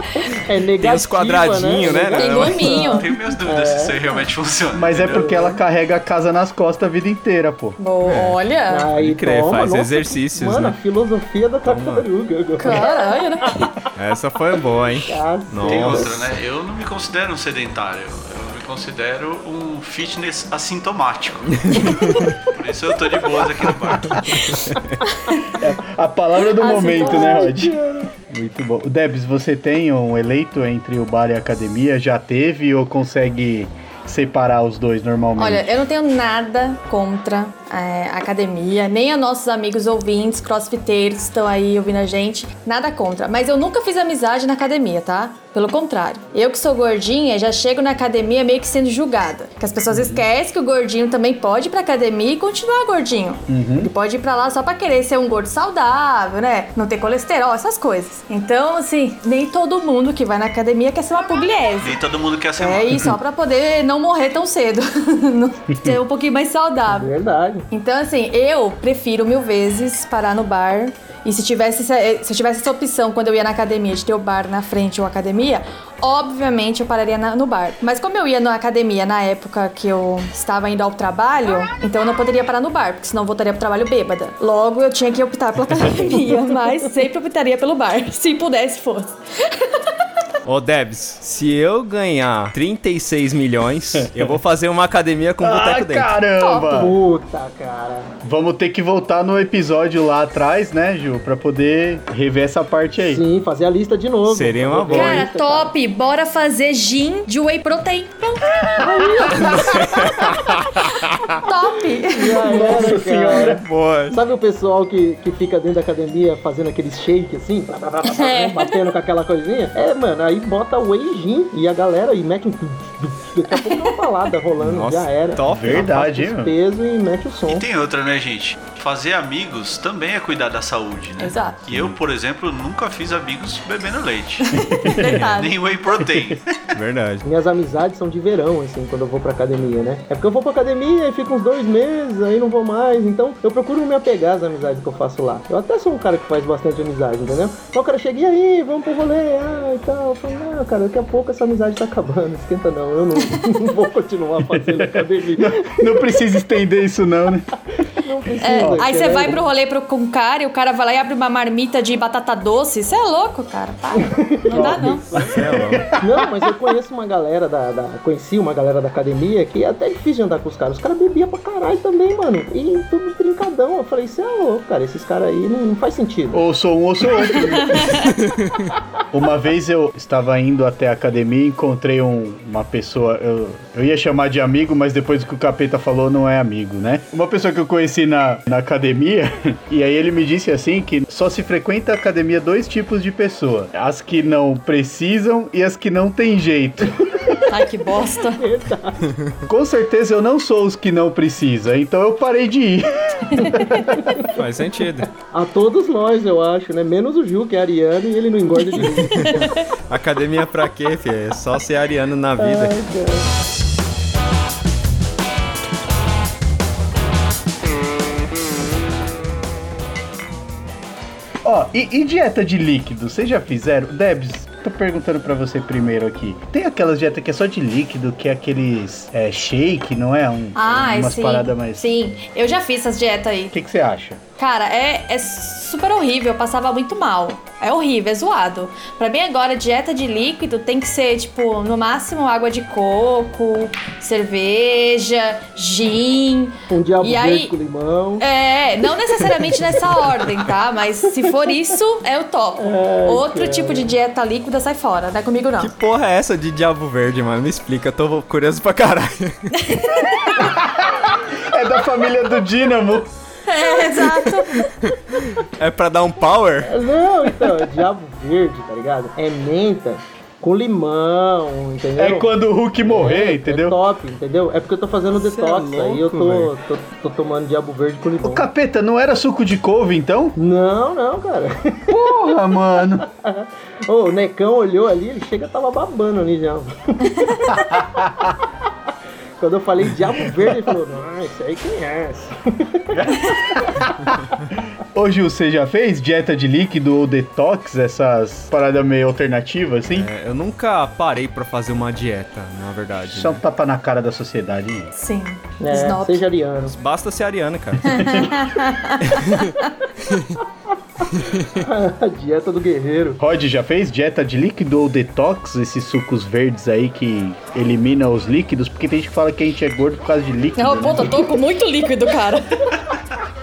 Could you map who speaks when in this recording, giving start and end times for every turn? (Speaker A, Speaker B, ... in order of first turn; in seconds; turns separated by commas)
Speaker A: 0.3-4.1, Speaker B: 0.8-2.8, Speaker C: 2.1-3.1, Speaker D: 2.8-5.5, Speaker E: 4.7-7.8, Speaker A: 5.1-5.6, Speaker C: 7.8-8.9, Speaker B: 8.0-8.4, Speaker A: 8.7-13.7, Speaker B: 9.0-10.8, Speaker B: 11.7-12.1, Speaker C: 12.6-13.7, Speaker B: 14.0-16.2, Speaker A: 15.0-16.3, Speaker D: 15.6-24.4, Speaker B: 21.6-22.0, Speaker C: 25.1-25.5, Speaker E: 25.5-27.8, Speaker C: 26.6-27.5, Speaker A: 26.9-28.1, Speaker E: 28.3-35.7, Speaker C: 35.4-62.0, Speaker E: 49.9-50.2, Speaker E: 53.5-53.9, Speaker D: 61.8-63.1, Speaker C: 62.6-67.1, Speaker A: 66.9-67.7, Speaker C: 67.7-89.7, Speaker B: 90.5-96.1, Speaker E: 94.0-94.3, Speaker E: 95.4-97.0, Speaker C: 96.4-96.8, Speaker A: 96.7-98.1, Speaker E: 98.2-103.2, Speaker A: 103.1-105.7, Speaker B: 104.3-105.3, Speaker C: 104.9-108.5, Speaker A: 108.8-109.8, Speaker E: 109.3-109.7, Speaker B: 109.4-111.3, Speaker C: 111.4-112.8, Speaker A: 112.0-127.7, Speaker E: 112.4-113.7, Speaker B: 113.3-114.2, Speaker C: 118.1-118.7, Speaker B: 124.6-125.9, Speaker E: 125.5-126.5, Speaker D: 127.5-134.6, Speaker C: 131.2-131.6, Speaker C: 134.4-135.6, Speaker E: 134.6-135.2, Speaker B: 135.0-135.3, Speaker D: 135.3-136.7, Speaker B: 136.7-137.2, Speaker A: 137.2-156.1, Speaker E: 154.4-157.5, Speaker A: 158.0-159.4, Speaker C: 158.4-165.1, Speaker E: 158.5-158.9, Speaker A: 164.0-165.3, Speaker E: 164.5-166.2, Speaker B: 165.2-165.9, Speaker A: 166.0-176.5, Speaker E: 176.3-178.1, Speaker C: 177.3-178.1, Speaker B: 178.3-178.6, Speaker E: 179.1-197.0, Speaker C: 197.5-198.4, Speaker A: 198.4-199.1, Speaker E: 199.5-204.1, Speaker C: 203.3-203.8, Speaker A: 203.7-204.4, Speaker B: 204.3-205.1, Speaker A: 205.2-209.4, Speaker B: 208.8-212.8, Speaker C: 209.2-209.7, Speaker A: 212.4-213.3, Speaker E: 221.4-231.8, Speaker C: 230.6-233.6, Speaker E: 233.5-234.2, Speaker C: 234.4-247.5, Speaker A: 246.7-248.3, Speaker C: 248.2-255.7, Speaker A: 252.6-253.9, Speaker B: 255.6-259.7, Speaker C: 259.6-260.5, Speaker E: 260.4-263.1, Speaker C: 263.5-264.7, Speaker B: 264.8-266.7, Speaker A: 266.6-272.3, Speaker E: 272.0-273.8, Speaker A: 272.8-278.5, Speaker B: 275.1-276.5, Speaker E: 278.2-280.4, Speaker A: 280.4-282.3, Speaker E: 281.9-283.1, Speaker A: 283.0-287.8, Speaker E: 287.5-288.3, Speaker A: 289.4-293.4, Speaker E: 292.9-300.1, Speaker B: 299.9-303.4, Speaker E: 303.1-304.9, Speaker C: 304.9-306.3, Speaker A: 305.6-306.8, Speaker B: 306.7-308.1, Speaker E: 307.8-308.5, Speaker C: 307.9-309.7, Speaker B: 309.1-309.5, Speaker B: 310.1-310.4, Speaker B: 311.1-311.7, Speaker A: 311.6-313.2, Speaker E: 313.2-321.3, Speaker C: 320.6-322.7